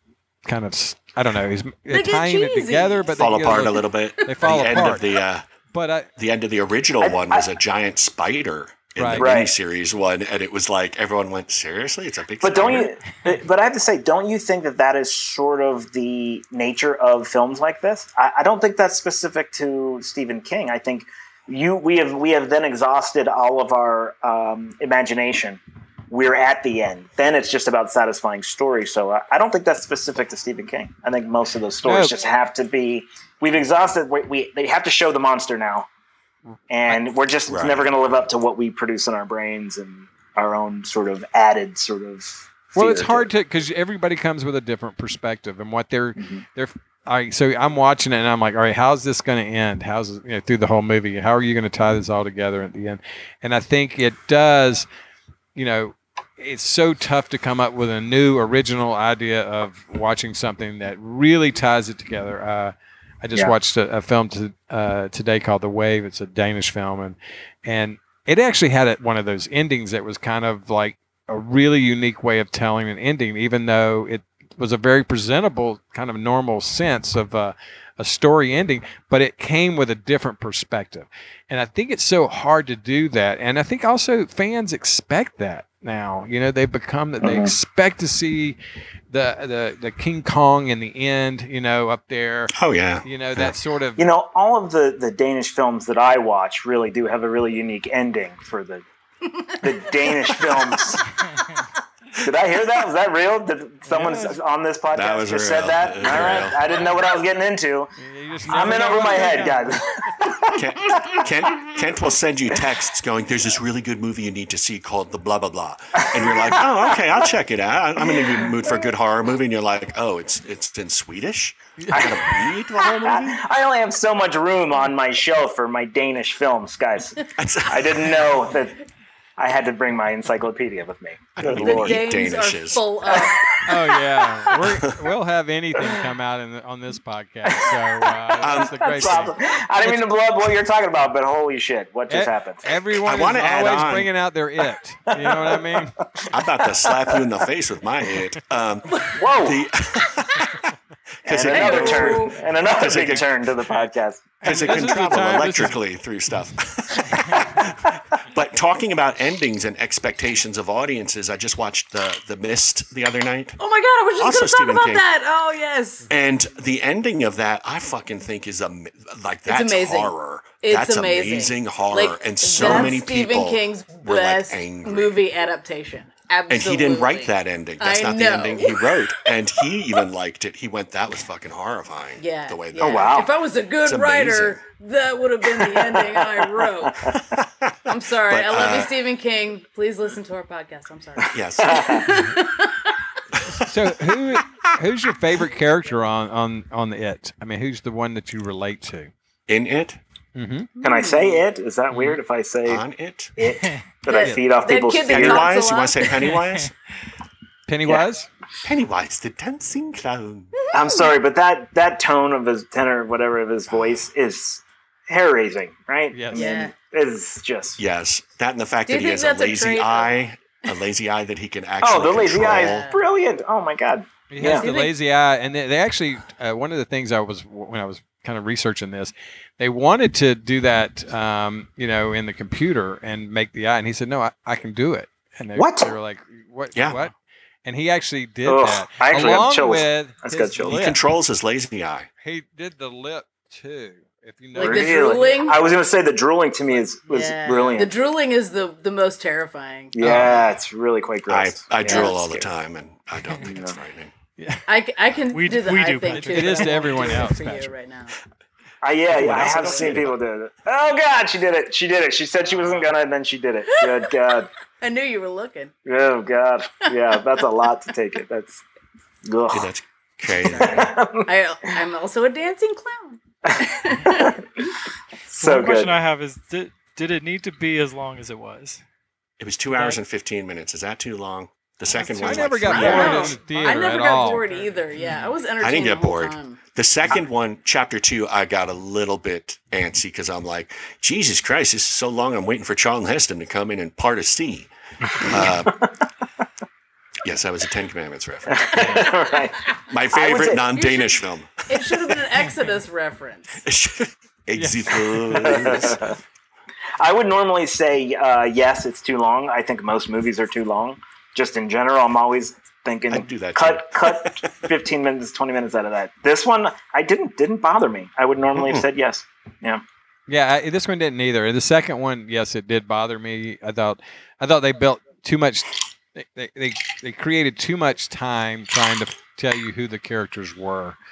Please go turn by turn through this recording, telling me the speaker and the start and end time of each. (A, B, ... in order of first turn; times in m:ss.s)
0:00.4-0:05.1 A
0:01.9-0:03.8 B
0:03.2-0:05.4 C
0:05.7-0:06.1 A
0:06.2-0:12.9 C
0:07.0-0:07.5 D
0:09.0-0:09.3 A
0:09.1-0:09.5 D
0:12.4-0:35.9 D
0:31.8-0:32.1 A
0:36.7-0:43.3 D
0:37.5-0:37.9 C
0:42.8-0:54.9 A
0:55.6-1:28.6 A
1:27.2-1:27.5 D
1:29.1-1:34.0 A
1:32.5-1:33.6 C
1:34.0-1:38.8 D
1:39.5-1:41.2 D
1:42.2-1:47.9 D
1:43.9-1:44.3 A
1:44.9-1:46.9 C
1:48.0-1:49.9 A
1:48.5-1:51.8 D
1:50.6-2:03.4 C
1:56.1-1:57.1 D
1:58.0-1:58.5 D
2:01.8-2:02.1 A
2:01.9-2:08.8 D
2:07.4-2:08.6 C
2:09.4-2:12.2 D
2:11.4-2:12.9 C
2:11.4-2:13.6 B
2:13.1-2:14.0 D
2:13.7-2:20.1 A
2:17.5-2:22.7 D
2:18.4-2:19.3 C
2:22.1-2:26.0 A
2:23.0-2:24.1 C
2:25.1-2:27.5 D
2:26.3-2:30.7 C
2:29.1-2:29.6 D
2:31.2-2:33.6 C
2:31.2-2:34.3 D
2:31.5-2:32.4 B
2:34.4-2:35.8 A
2:34.4-2:43.6 C
2:43.6-2:46.1 B
2:44.2-2:45.0 C
2:46.1-2:55.2 C
2:49.5-2:59.3 B
2:52.6-2:52.9 D
2:56.5-3:03.3 C
3:02.2-3:07.2 B
3:02.8-3:03.3 D
3:03.8-3:04.6 C
3:05.6-3:07.2 D
3:07.4-3:08.9 C
3:07.9-3:13.0 B
3:11.3-3:12.1 C
3:11.6-3:12.2 D
3:13.4-3:13.7 C
3:13.6-3:19.1 A
3:19.5-3:20.0 C
3:20.4-3:20.7 A
3:20.8-3:21.4 B
3:20.8-3:22.8 D
3:21.9-3:22.2 A
3:22.7-3:23.4 C
3:23.4-3:25.6 D
3:24.1-3:26.4 B
3:24.2-3:24.5 A
3:25.1-3:26.7 C
3:27.7-3:28.3 A
3:28.6-3:30.5 C
3:30.7-3:37.8 D
3:30.8-3:31.1 B
3:36.1-3:36.6 A
3:36.3-3:36.7 B
3:37.8-3:42.9 C
3:38.9-3:40.1 B
3:41.8-3:44.7 D
3:42.4-3:43.1 B
3:44.3-3:57.1 A
3:44.4-3:44.9 B
3:55.6-3:56.0 D
3:56.8-3:57.0 C
3:57.6-4:01.0 A
3:58.5-4:00.8 D
4:00.7-4:02.1 C
4:02.2-4:05.3 A
4:04.6-4:05.7 B
4:04.6-4:07.9 D
4:07.1-4:09.9 B
4:09.9-4:12.5 D
4:10.0-4:10.4 A
4:11.3-4:14.1 C
4:11.9-4:12.2 B
4:13.4-4:13.8 D
4:14.4-4:14.6 A
4:14.7-4:18.2 B
4:15.3-4:17.3 E
4:16.1-4:17.7 A
4:18.8-4:24.5 D
4:19.1-4:20.1 C
4:19.2-4:20.0 B
4:23.7-4:24.2 B
4:24.8-4:25.7 B
4:25.9-4:28.6 D
4:29.2-4:29.7 D
4:29.5-4:30.9 C
4:30.5-4:31.3 D
4:30.5-4:34.4 B
4:33.4-4:34.5 D
4:35.3-4:36.0 D
4:35.4-4:38.8 E
4:39.4-4:43.4 C
4:39.7-4:40.0 E
4:42.0-4:45.3 E
4:42.1-4:44.5 A
4:42.7-4:46.6 B
4:45.6-4:55.8 C
4:55.3-4:55.6 D
4:57.2-4:59.1 C
4:58.5-5:00.8 D
4:59.9-5:02.2 C
5:00.8-5:01.1 B
5:01.7-5:03.6 B
5:03.6-5:06.2 C
5:04.6-5:05.0 A
5:05.3-5:06.1 D
5:07.0-5:19.8 D
5:13.1-5:14.5 C
5:18.6-5:18.8 C
5:20.3-5:31.0 A